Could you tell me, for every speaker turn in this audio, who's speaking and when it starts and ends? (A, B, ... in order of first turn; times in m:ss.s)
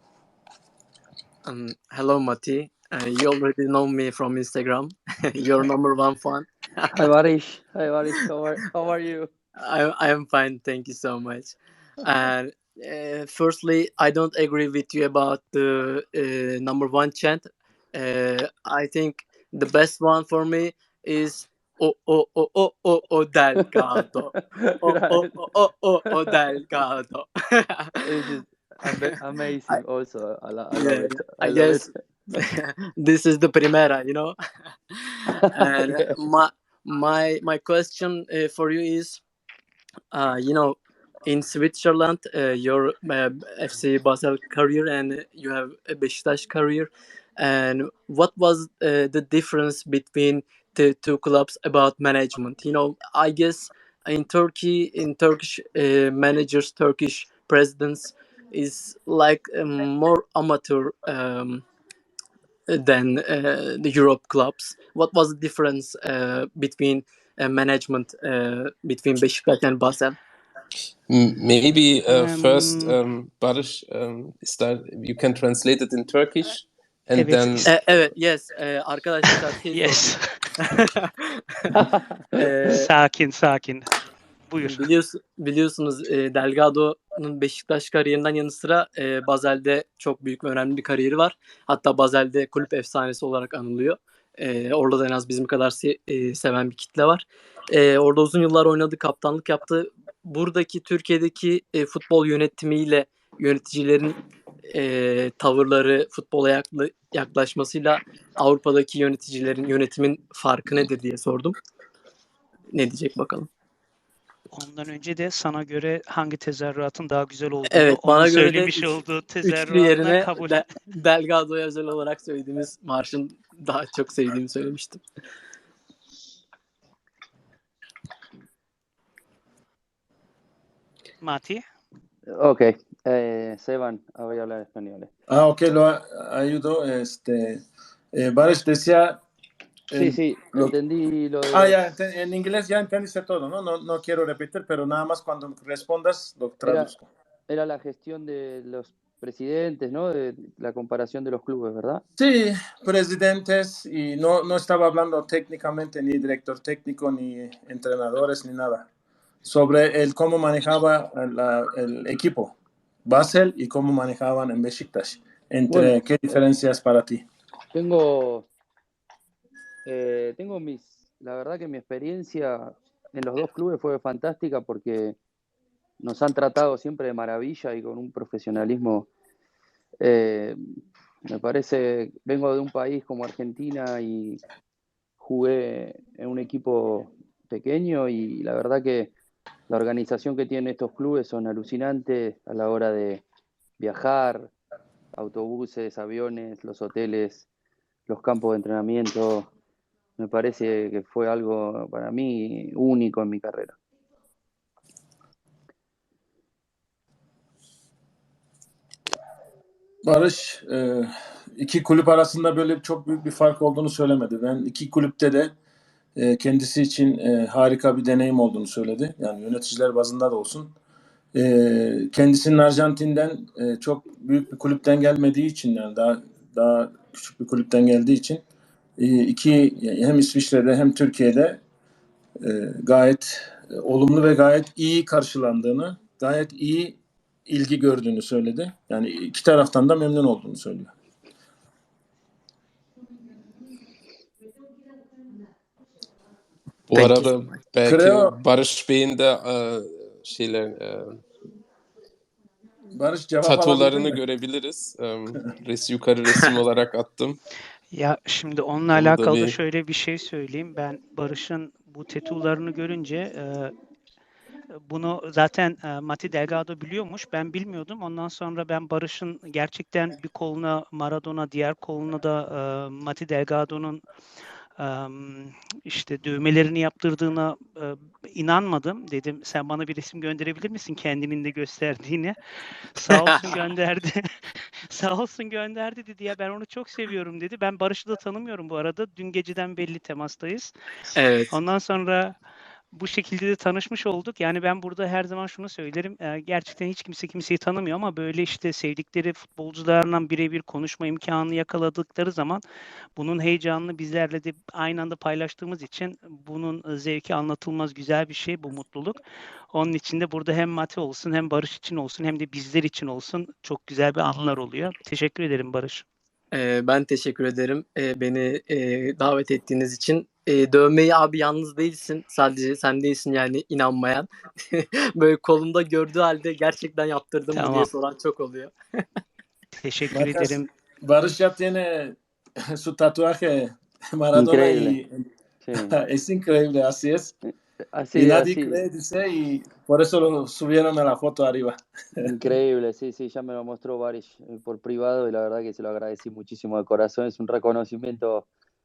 0:01.5-0:07.0 A
0:07.0-0:09.3 B
0:09.6-0:27.8 A
0:23.8-0:25.3 B
0:28.0-0:31.9 B
0:30.7-0:34.4 A
0:34.9-0:39.2 A
0:40.1-1:01.6 A
1:02.7-1:10.2 A
1:11.1-1:17.7 C
1:12.1-1:13.0 D
1:17.2-1:17.7 D
1:17.7-1:20.0 A
1:19.7-1:20.3 D
1:21.8-1:22.0 B
1:22.4-1:22.9 A
1:22.7-1:23.9 D
1:24.5-1:24.9 D
1:24.6-1:44.2 A
1:44.7-1:51.5 A
1:52.7-1:53.5 A
1:54.5-2:00.6 D
1:57.7-2:05.0 A
2:11.2-2:11.6 D
2:12.3-2:15.1 B
2:15.3-2:19.2 E
2:19.9-2:20.7 E
2:19.9-2:21.8 B
2:21.5-2:27.1 E
2:26.6-2:26.9 B
2:27.5-2:32.0 B
2:32.2-2:38.9 E
2:39.4-2:47.3 E
2:45.7-2:46.4 B
2:47.7-2:48.5 B
2:49.9-2:55.2 B
2:56.0-2:59.1 B
3:00.0-3:00.6 B
3:01.3-3:04.4 B
3:05.2-3:09.1 B
3:09.7-3:13.2 B
3:13.8-3:14.5 B
3:15.1-3:17.5 B
3:18.1-3:19.5 B
3:20.2-3:23.8 B
3:30.0-3:35.5 E
3:36.2-3:40.8 E
3:41.3-3:48.4 E
3:49.0-3:51.6 E
3:52.4-4:00.9 E
4:06.9-4:11.2 C
4:06.9-4:07.6 A
4:07.8-4:08.4 E
4:13.0-4:14.2 E
4:13.4-4:17.4 C
4:17.9-4:23.7 D
4:19.0-4:19.6 C
4:24.9-4:34.0 D
4:34.8-4:42.4 D
4:42.9-4:50.7 D
4:43.1-4:43.6 A
4:51.2-4:51.5 A
4:51.5-4:52.3 D
4:52.9-5:02.6 D
5:03.2-5:09.2 D
5:09.7-5:16.0 D
5:16.5-5:28.7 A
5:27.5-5:27.9 D
5:29.8-5:30.7 D
5:30.1-5:32.2 E
5:32.8-5:35.2 E
5:34.3-5:35.0 B
5:35.7-5:35.9 B
5:35.8-5:37.4 E
5:37.9-5:38.8 B
5:38.2-5:42.2 E
5:42.2-5:48.5 B